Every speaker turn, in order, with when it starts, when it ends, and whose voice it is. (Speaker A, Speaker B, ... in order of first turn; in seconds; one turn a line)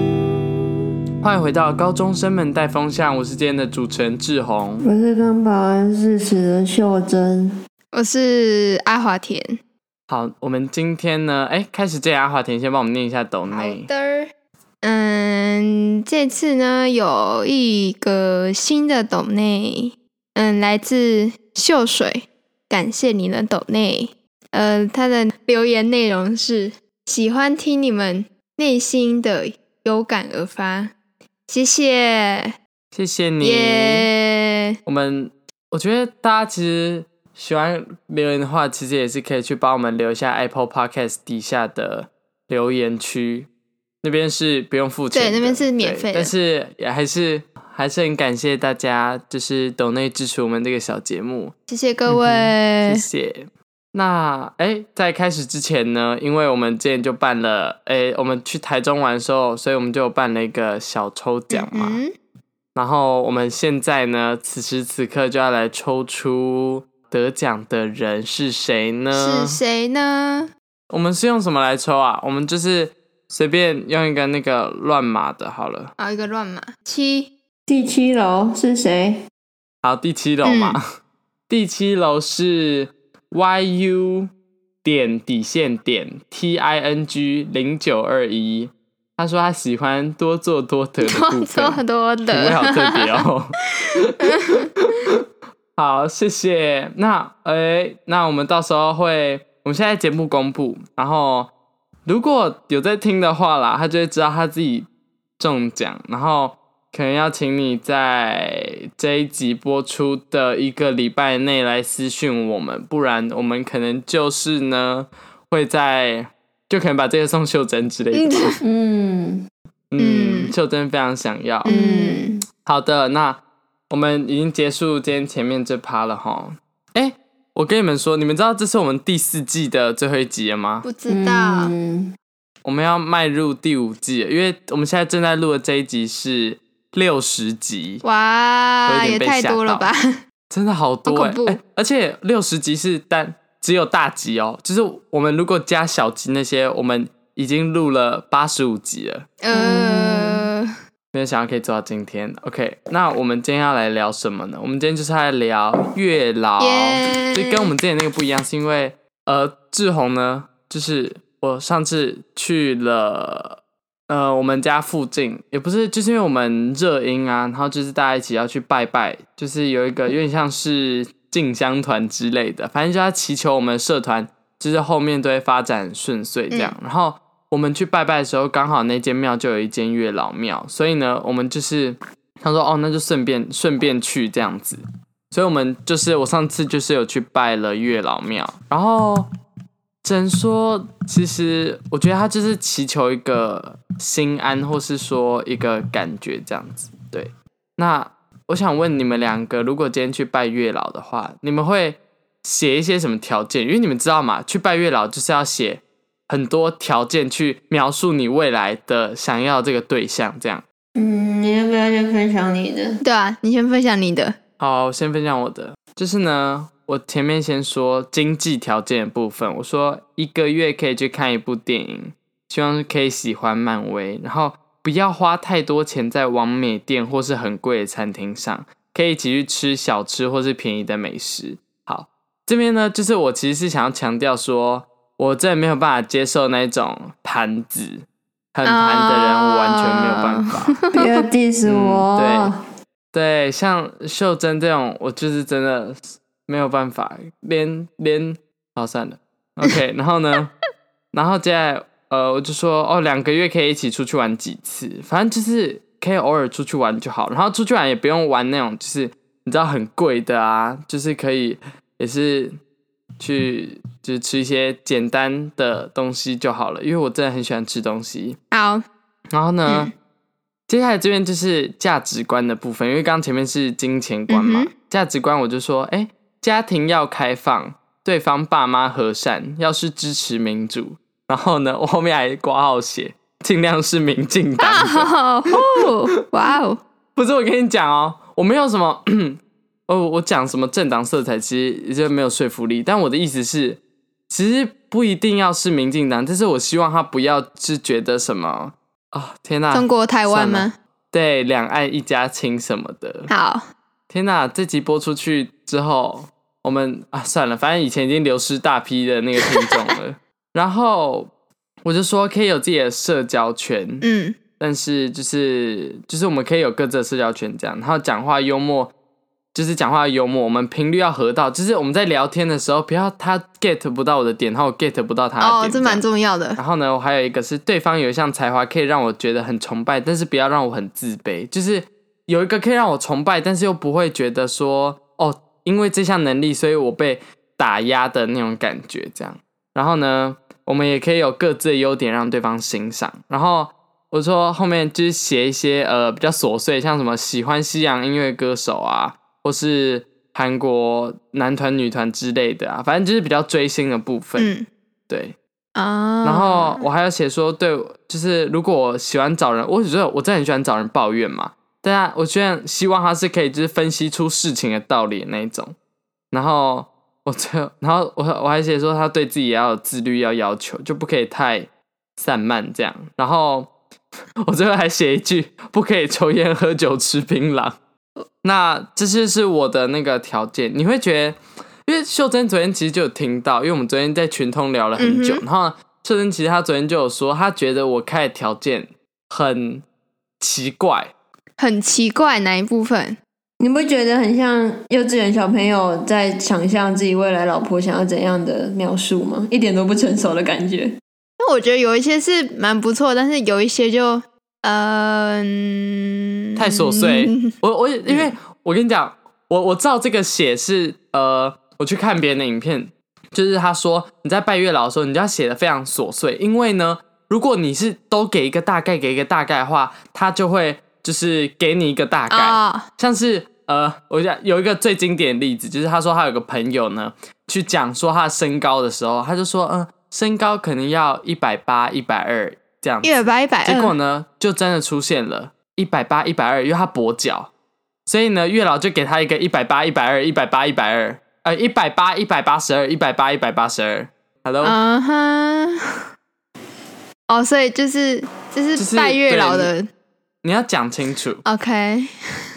Speaker A: 1.2-4.8
Speaker B: 4.8-7.6
Speaker C: 7.9-9.6
Speaker A: 10.1-13.9
Speaker C: 13.5-14.3
Speaker C: 14.8-30.9
Speaker C: 31.5-32.5
Speaker A: 32.9-34.1
Speaker C: 33.4-34.7
Speaker A: 34.9-43.5
Speaker A: 44.0-51.5
Speaker C: 45.1-46.3
Speaker C: 51.7-53.0
Speaker A: 52.1-62.0
Speaker C: 61.5-62.1
Speaker A: 62.8-69.6
Speaker C: 69.1-70.5
Speaker A: 70.9-75.9
Speaker C: 76.0-77.3
Speaker B: 77.7-79.2
Speaker A: 79.8-80.8
Speaker C: 80.4-80.8
Speaker A: 81.5-84.3
Speaker A: 84.8-95.2
Speaker C: 91.0-93.2
Speaker C: 94.2-94.7
Speaker A: 95.8-101.5
Speaker A: 102.1-104.9
Speaker A: 105.4-118.6
Speaker C: 118.1-118.6
Speaker B: 118.6-119.5
Speaker A: 119.9-121.7
Speaker C: 120.0-120.5
Speaker C: 121.6-122.4
Speaker B: 121.7-122.4
Speaker A: 122.6-130.9
Speaker C: 130.8-131.7
Speaker B: 131.1-132.1
Speaker A: 132.7-138.0
Speaker C: 138.0-140.2
Speaker A: 138.9-139.9
Speaker A: 140.5-149.3
Speaker C: 141.1-141.6
Speaker C: 149.4-150.7
Speaker B: 149.5-150.4
Speaker A: 151.1-189.3
Speaker C: 156.6-157.7
Speaker A: 190.0-210.6
Speaker B: 211.0-213.0
Speaker C: 213.0-214.4
Speaker A: 214.6-240.7
Speaker C: 238.7-241.1
Speaker B: 240.9-242.6
Speaker A: 241.7-242.5
Speaker A: 243.1-250.5
Speaker A: 251.1-262.6
Speaker A: 263.2-268.4
Speaker C: 268.5-268.8
Speaker A: 269.3-269.9
Speaker C: 269.7-269.9
Speaker A: 270.7-285.1
Speaker C: 274.3-274.7
Speaker C: 284.6-286.8
Speaker A: 287.2-303.3
Speaker C: 299.7-300.8
Speaker C: 303.3-303.6
Speaker A: 304.1-311.3
Speaker C: 309.4-309.7
Speaker A: 311.8-314.1
Speaker C: 314.0-314.4
Speaker A: 314.6-318.9
Speaker A: 319.5-326.0
Speaker C: 325.4-326.6
Speaker A: 326.6-354.5
Speaker C: 354.4-354.7
Speaker A: 355.1-355.4
Speaker C: 355.8-356.9
Speaker A: 356.2-365.8
Speaker A: 366.3-373.7
Speaker A: 374.4-377.8
Speaker A: 378.4-389.9
Speaker C: 385.0-385.4
Speaker A: 390.4-391.1
Speaker C: 391.6-393.2
Speaker B: 393.6-401.0
Speaker C: 401.4-407.5
Speaker A: 406.6-437.5
Speaker C: 422.3-422.9
Speaker C: 433.0-433.9
Speaker A: 438.1-444.8
Speaker C: 444.6-445.8
Speaker C: 447.3-449.9
Speaker A: 448.8-449.7
Speaker A: 450.4-451.4
Speaker C: 451.4-452.1